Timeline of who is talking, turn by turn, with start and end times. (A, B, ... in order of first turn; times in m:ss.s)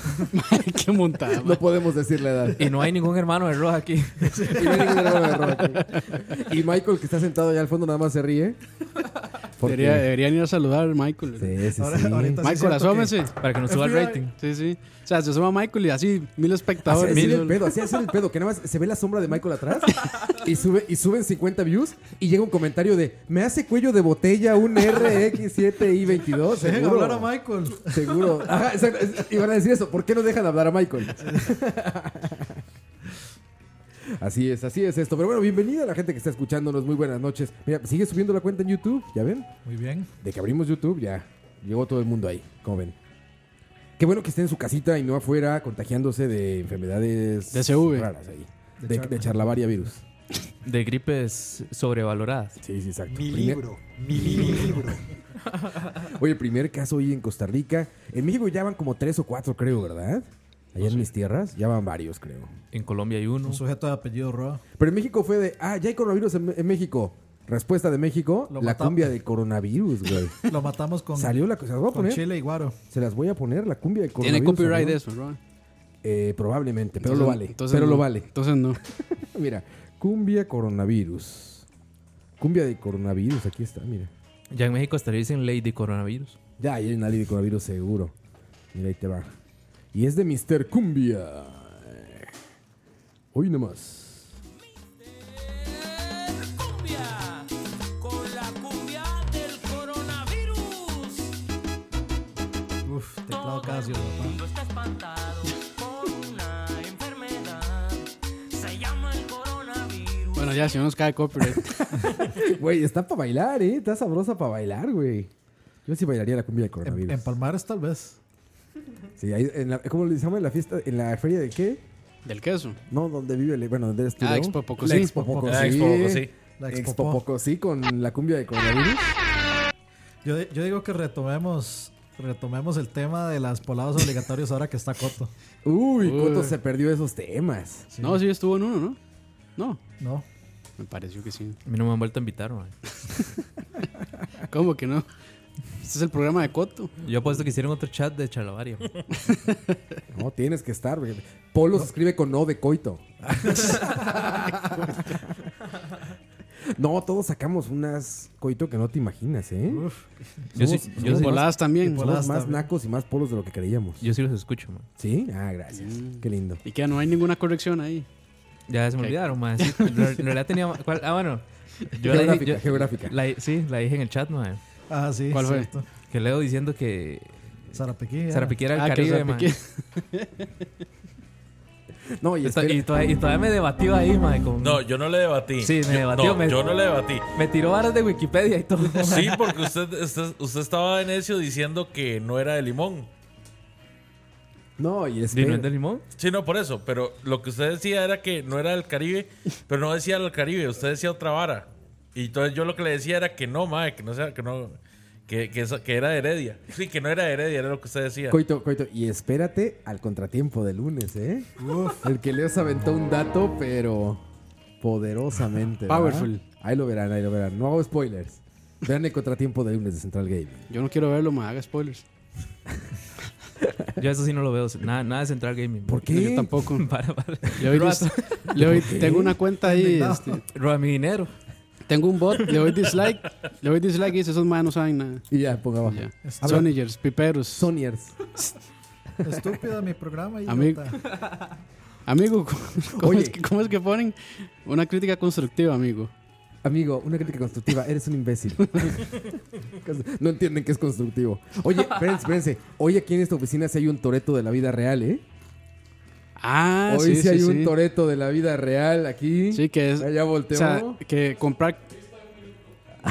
0:00.3-0:01.6 A
0:01.4-0:02.7 B
0:02.6-0:04.5 C
0:04.3-0:05.3 D
0:04.5-0:08.6 B
0:09.6-0:10.1 B
0:09.6-0:11.6 A
0:11.4-0:12.5 B
0:11.8-0:14.2 D
0:12.4-0:13.4 A
0:13.4-0:14.3 C
0:14.3-0:17.6 A
0:16.9-0:32.6 B
0:17.0-0:17.5 C
0:26.3-0:28.3 D
0:34.2-0:39.5 B
0:39.6-0:40.1 D
0:40.2-0:43.0 B
0:44.0-0:50.0 B
0:47.5-0:48.1 A
0:48.8-0:49.5 D
0:50.6-0:52.6 C
0:52.6-0:55.0 B
0:55.8-1:02.5 B
1:02.7-1:03.6 C
1:03.4-1:04.6 D
1:04.8-1:10.4 B
1:08.5-1:09.2 D
1:10.5-1:12.8 D
1:11.2-1:12.3 B
1:12.9-1:15.0 B
1:14.2-1:15.4 A
1:16.0-1:18.3 B
1:17.0-1:18.8 A
1:19.0-1:21.7 B
1:22.4-1:24.1 B
1:24.5-1:26.4 C
1:26.6-1:28.1 B
1:28.7-1:29.3 B
1:29.9-1:32.3 B
1:33.3-1:34.3 B
1:34.8-1:41.4 E
1:42.8-1:44.4 D
1:43.3-1:50.9 E
1:50.4-1:51.7 A
1:51.8-1:55.3 B
1:55.9-1:57.3 B
1:56.8-1:58.2 D
1:59.2-2:01.8 B
2:02.2-2:02.8 A
2:02.9-2:09.2 B
2:04.2-2:05.2 A
2:04.9-2:05.9 D
2:05.5-2:06.3 F
2:06.6-2:07.2 D
2:10.2-2:15.3 D
2:15.6-2:17.9 B
2:16.0-2:16.5 A
2:17.9-2:18.2 D
2:18.0-2:19.0 A
2:19.6-2:19.8 A
2:20.0-2:20.3 D
2:20.8-2:21.6 A
2:21.7-2:22.8 C
2:24.5-2:25.1 A
2:25.8-2:27.0 A
2:27.0-2:29.0 C
2:29.3-2:29.8 A
2:30.1-2:35.2 B
2:36.6-2:39.9 B
2:39.7-2:42.7 D
2:40.6-2:41.5 C
2:40.6-2:41.4 B
2:41.1-2:42.1 A
2:41.9-2:44.1 B
2:44.0-2:44.9 C
2:45.0-2:46.6 B
2:45.7-2:48.1 A
2:48.7-2:54.6 C
2:49.0-2:50.3 A
2:52.0-2:53.2 B
2:54.9-2:55.9 D
2:55.3-2:55.7 A
2:56.1-2:57.5 C
2:57.7-2:58.6 D
2:58.3-2:59.5 C
2:58.7-3:00.6 A
3:02.2-3:02.9 B
3:02.4-3:04.8 C
3:04.6-3:07.3 F
3:05.6-3:06.6 C
3:07.4-3:09.5 C
3:09.0-3:13.1 F
3:14.8-3:15.7 B
3:15.3-3:16.0 C
3:16.2-3:28.4 F
3:28.3-3:34.2 B
3:31.6-3:32.0 D
3:34.8-3:40.7 B
3:35.9-3:36.4 A
3:40.7-3:42.0 A
3:44.0-3:46.1 C
3:45.9-3:46.5 B
3:46.1-3:46.9 A
3:46.7-3:49.1 C
3:47.6-3:50.4 A
3:49.6-3:50.4 D
3:50.5-3:51.3 C
3:51.9-3:55.3 A
3:55.3-3:56.7 B
3:55.8-3:57.7 A
3:56.2-3:56.7 D
3:57.5-3:58.2 B
3:59.2-4:01.0 D
4:00.5-4:00.8 A
4:02.1-4:06.1 A
4:03.0-4:03.4 B
4:06.6-4:09.2 B
4:09.8-4:15.2 B
4:16.4-4:17.7 A
4:16.9-4:21.0 B
4:19.5-4:22.0 A